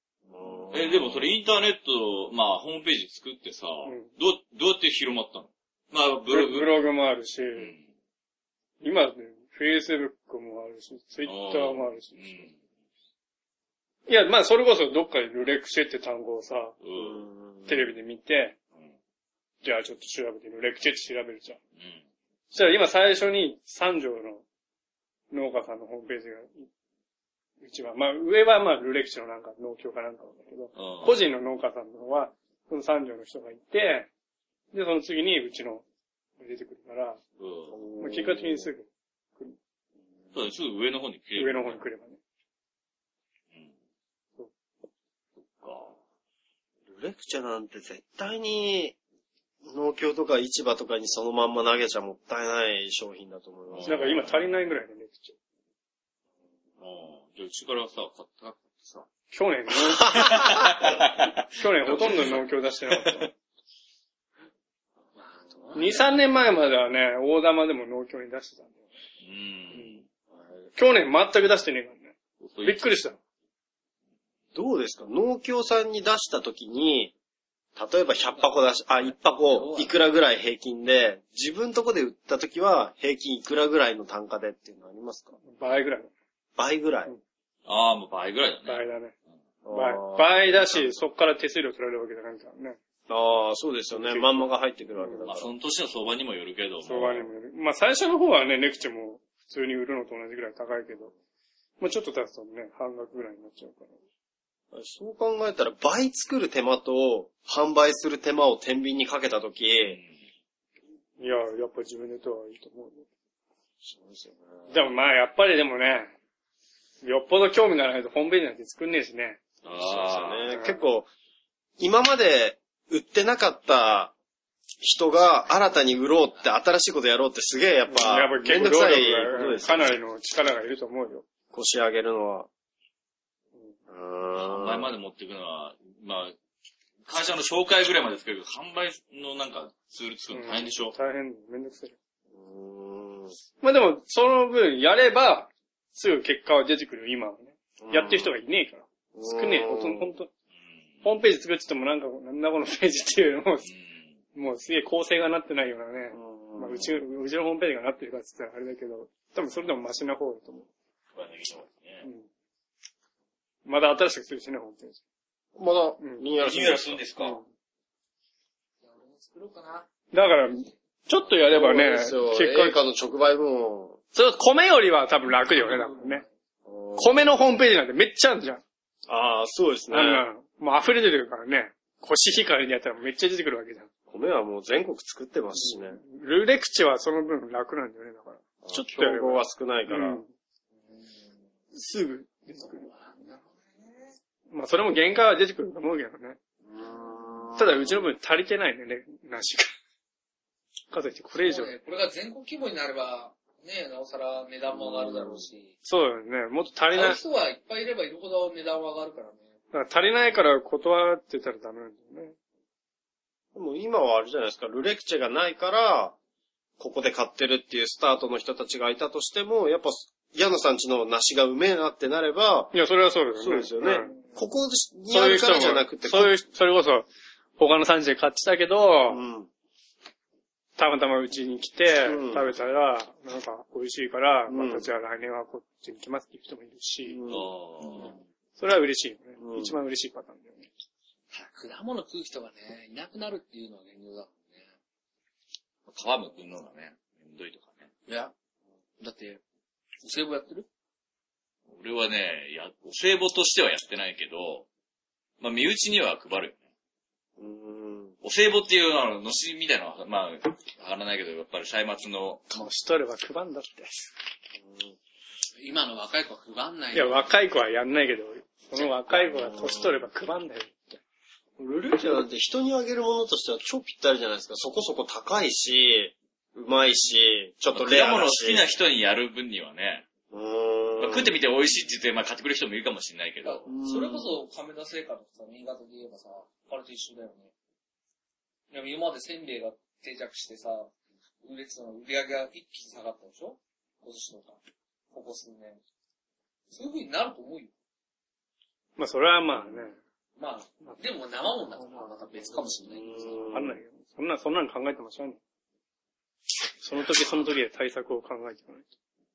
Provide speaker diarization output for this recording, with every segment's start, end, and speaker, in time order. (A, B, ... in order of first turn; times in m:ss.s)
0:00.3-0:01.3 A
0:00.7-0:06.7 B
0:03.8-0:04.1 C
0:06.3-0:07.7 C
0:07.6-0:07.8 B
0:08.8-0:12.5 C
0:11.2-0:12.6 B
0:14.1-0:16.8 C
0:16.8-0:17.2 B
0:16.9-0:17.9 A
0:17.6-0:18.6 C
0:19.6-0:21.6 C
0:21.8-0:22.0 B
0:22.5-0:24.4 C
0:25.3-0:26.7 C
0:27.6-0:34.1 C
0:30.7-0:31.2 B
0:34.7-0:35.8 C
0:36.4-0:37.2 C
0:37.4-0:37.8 B
0:37.7-0:38.7 A
0:38.0-0:39.6 C
0:40.3-0:41.8 B
0:41.4-0:42.2 C
0:45.4-0:46.0 B
0:46.9-0:49.0 A
0:49.6-0:54.2 A
0:53.7-0:54.6 B
0:53.8-0:55.3 C
0:56.8-0:59.1 B
0:59.3-1:00.3 C
1:00.0-1:02.4 B
1:00.1-1:00.6 A
1:01.5-1:03.3 C
1:05.2-1:06.1 D
1:05.7-1:08.8 C
1:09.2-1:10.0 B
1:10.8-1:13.2 C
1:12.4-1:12.8 B
1:14.5-1:17.1 A
1:17.8-1:25.4 A
1:18.2-1:20.0 D
1:25.4-1:26.1 C
1:26.6-1:27.1 A
1:27.6-1:28.8 B
1:28.6-1:29.1 C
1:29.6-1:31.0 A
1:29.7-1:32.8 C
1:33.1-1:35.5 A
1:33.9-1:35.3 C
1:35.2-1:37.3 B
1:36.8-1:41.1 C
1:41.8-1:44.0 C
1:44.7-1:50.0 A
1:49.8-1:50.1 B
1:51.2-1:53.0 C
1:53.8-1:54.7 A
1:54.7-1:56.1 C
1:57.0-1:59.4 C
1:59.6-2:00.4 B
1:59.8-2:01.1 A
2:00.5-2:00.8 C
2:01.8-2:04.1 A
2:04.8-2:10.0 A
2:07.9-2:11.2 C
2:11.5-2:12.5 A
2:13.9-2:14.9 A
2:14.4-2:16.4 B
2:17.0-2:20.9 B
2:20.3-2:21.9 C
2:22.3-2:23.3 A
2:23.6-2:30.3 C
2:27.8-2:28.3 A
2:29.1-2:30.1 A
2:30.7-2:31.0 B
2:31.0-2:33.7 C
2:33.6-2:34.2 B
2:34.3-2:40.7 C
2:36.1-2:36.9 A
2:41.1-2:42.0 B
2:42.0-2:42.3 C
2:43.6-2:45.0 C
2:45.6-2:47.0 A
2:46.0-2:46.3 C
2:46.4-2:47.4 B
2:47.2-2:47.4 C
2:48.8-2:49.9 D
2:50.1-2:52.8 C
2:51.5-2:54.0 A
2:54.1-2:56.2 C
2:55.3-2:56.3 D
2:56.6-2:57.5 A
2:57.0-2:58.6 C
2:59.1-3:00.2 A
2:59.9-3:03.9 C
3:04.1-3:06.0 A
3:05.6-3:10.3 C
3:08.6-3:10.2 A
3:10.8-3:11.4 D
3:11.7-3:12.9 C
3:12.6-3:14.1 D
3:14.5-3:16.4 C
3:16.6-3:18.0 A
3:17.6-3:19.7 C
3:20.9-3:21.7 C
3:21.4-3:25.7 D
3:24.7-3:25.5 A
3:25.8-3:27.2 C
3:26.9-3:29.6 D
3:29.7-3:32.4 C
3:33.5-3:36.2 A
3:36.8-3:42.7 A
3:42.7-3:44.1 C
3:43.3-3:46.3 A
3:45.1-3:47.1 C
3:47.6-3:49.2 C
3:49.1-3:49.5 A
3:50.8-3:57.2 C
3:52.0-3:52.5 A
3:54.5-3:54.9 A
3:57.0-3:58.0 A
3:57.3-3:58.2 B
3:58.6-4:00.7 C
3:59.4-3:59.8 A
4:01.3-4:04.7 D
4:05.9-4:07.9 B
4:08.1-4:08.3 D
4:09.0-4:09.4 D
4:10.0-4:10.6 D
4:11.7-4:14.6 B
4:15.4-4:16.6 B
4:17.4-4:18.2 A
4:18.2-4:22.6 B
4:22.5-4:24.1 C
4:24.6-4:25.0 A
4:25.6-4:27.3 D
4:26.9-4:31.0 C
4:29.1-4:30.0 A
4:31.6-4:38.7 A
4:37.7-4:40.0 B
4:40.3-4:41.4 A
4:41.0-4:43.7 B
4:43.4-4:47.5 D
4:43.6-4:44.4 A
4:48.7-4:54.6 D
4:55.1-4:55.8 D
4:56.7-4:57.7 D
4:59.0-5:00.0 C
4:59.6-4:59.9 A
5:00.4-5:03.3 D
5:01.8-5:02.1 C
5:02.9-5:03.8 A
5:03.5-5:05.4 C
5:06.8-5:08.9 C